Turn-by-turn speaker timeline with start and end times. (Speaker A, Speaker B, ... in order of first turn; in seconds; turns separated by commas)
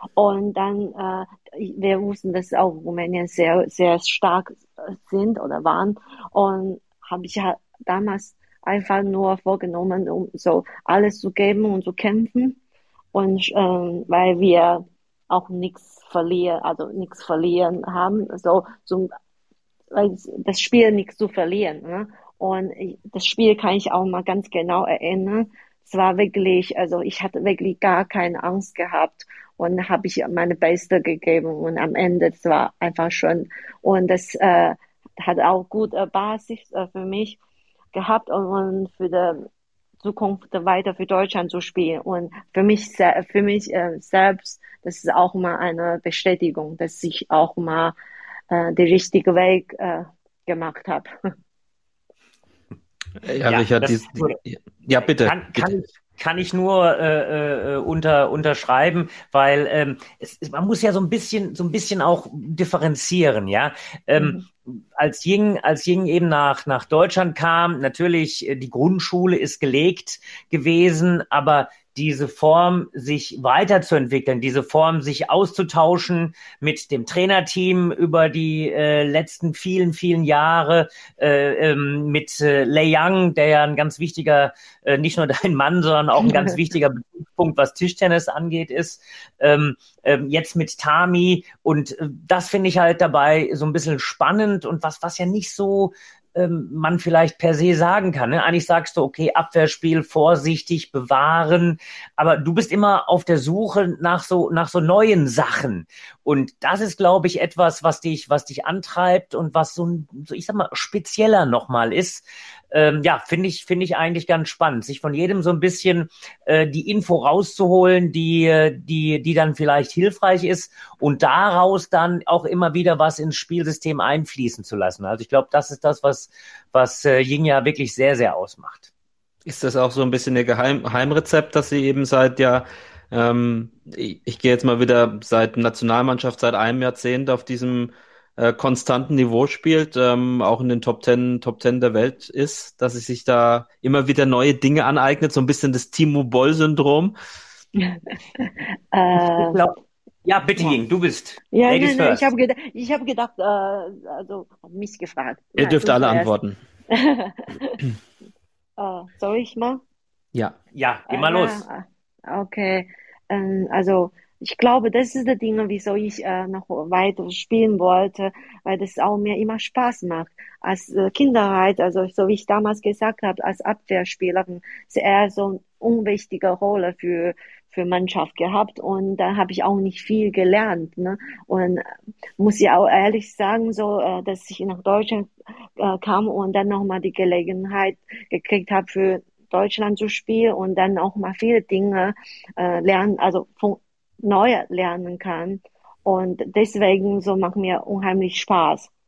Speaker A: 0.2-12.6, Speaker A: 13.1-19.1, Speaker A: 19.9-37.4, Speaker A: 37.9-39.5, Speaker A: 40.0-48.0, Speaker A: 48.5-51.1, Speaker B: 53.2-55.7, Speaker C: 53.4-54.4, Speaker C: 55.0-128.9, Speaker A: 64.2-64.4, Speaker B: 129.4-147.1, Speaker A: 147.8-149.6, Speaker C: 149.2-152.3, Speaker A: 151.5-156.3, Speaker B: 155.6-156.6, Speaker A: 156.9-157.8, Speaker A: 158.8-159.8, Speaker C: 160.7-161.6, Speaker A: 161.1-181.9, Speaker A: 182.4-198.9